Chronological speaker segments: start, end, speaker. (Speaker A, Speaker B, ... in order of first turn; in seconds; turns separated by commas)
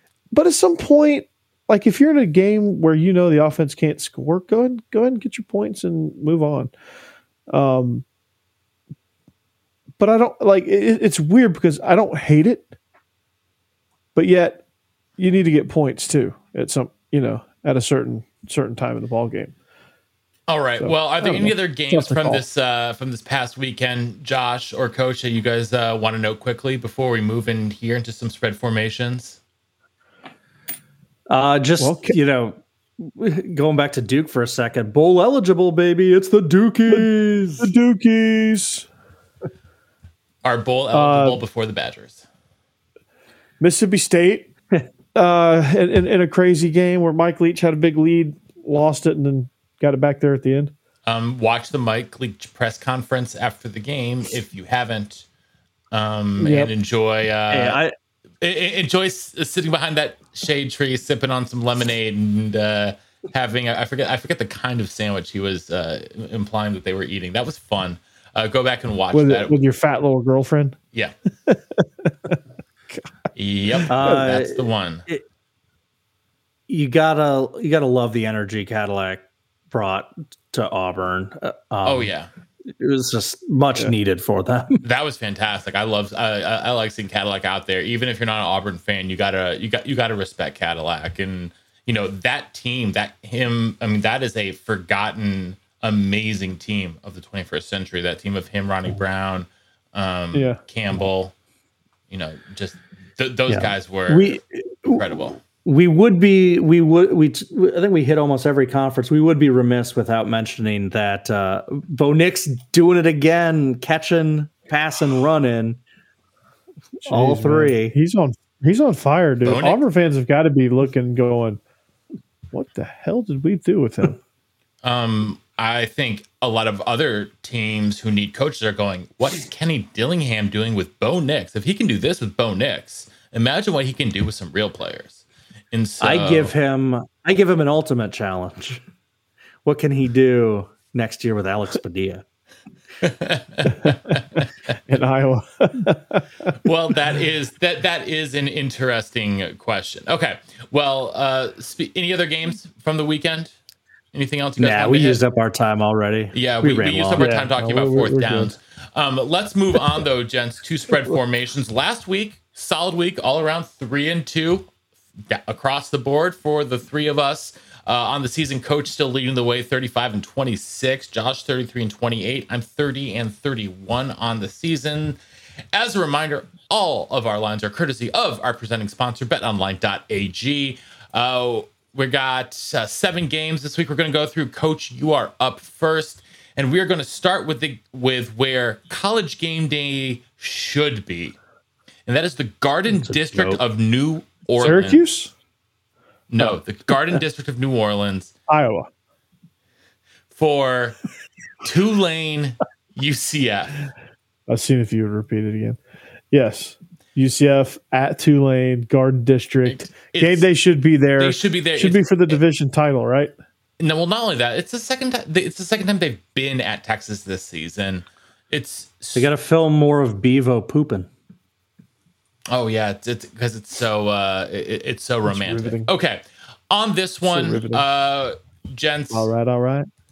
Speaker A: 0.3-6.7, Speaker A: 7.5-8.0, Speaker A: 10.0-12.7, Speaker A: 14.1-14.6, Speaker A: 15.2-19.5, Speaker B: 20.5-29.4, Speaker A: 20.8-22.4, Speaker C: 31.3-37.7, Speaker A: 31.8-32.1, Speaker A: 37.6-38.9, Speaker B: 40.4-42.2, Speaker A: 40.9-41.4, Speaker A: 43.6-44.5, Speaker A: 45.1-50.7, Speaker B: 51.0-55.2, Speaker B: 55.9-57.8, Speaker A: 56.4-56.7, Speaker C: 57.5-57.9, Speaker B: 58.4-69.6, Speaker A: 69.1-70.8, Speaker A: 71.5-72.3, Speaker B: 73.3-75.0, Speaker C: 73.9-75.2, Speaker C: 76.7-82.1, Speaker B: 81.8-82.3, Speaker C: 82.7-84.8, Speaker B: 84.8-101.3, Speaker A: 100.3-100.6, Speaker B: 102.1-105.4, Speaker C: 103.5-115.8, Speaker A: 117.0-121.6, Speaker C: 117.1-117.9, Speaker B: 119.4-119.8, Speaker A: 122.5-124.2, Speaker B: 124.8-136.5, Speaker C: 136.0-138.8, Speaker C: 139.6-142.2, Speaker B: 143.0-144.4, Speaker A: 144.8-146.6, Speaker B: 146.6-153.5, Speaker B: 154.1-155.2, Speaker C: 154.6-157.5, Speaker B: 156.3-164.7, Speaker A: 157.2-158.5, Speaker B: 165.3-175.2, Speaker B: 175.7-191.3, Speaker B: 192.1-195.0, Speaker C: 192.9-193.6, Speaker A: 194.6-195.3, Speaker B: 196.3-198.3, Speaker A: 198.5-198.9, Speaker B: 200.3-201.0, Speaker B: 201.6-203.8, Speaker A: 204.5-205.8, Speaker A: 206.3-213.3, Speaker B: 209.7-210.4, Speaker B: 211.2-212.4, Speaker B: 213.8-219.3, Speaker C: 219.2-221.1, Speaker B: 222.5-229.3, Speaker A: 225.3-225.9, Speaker A: 227.2-227.8, Speaker A: 229.1-229.9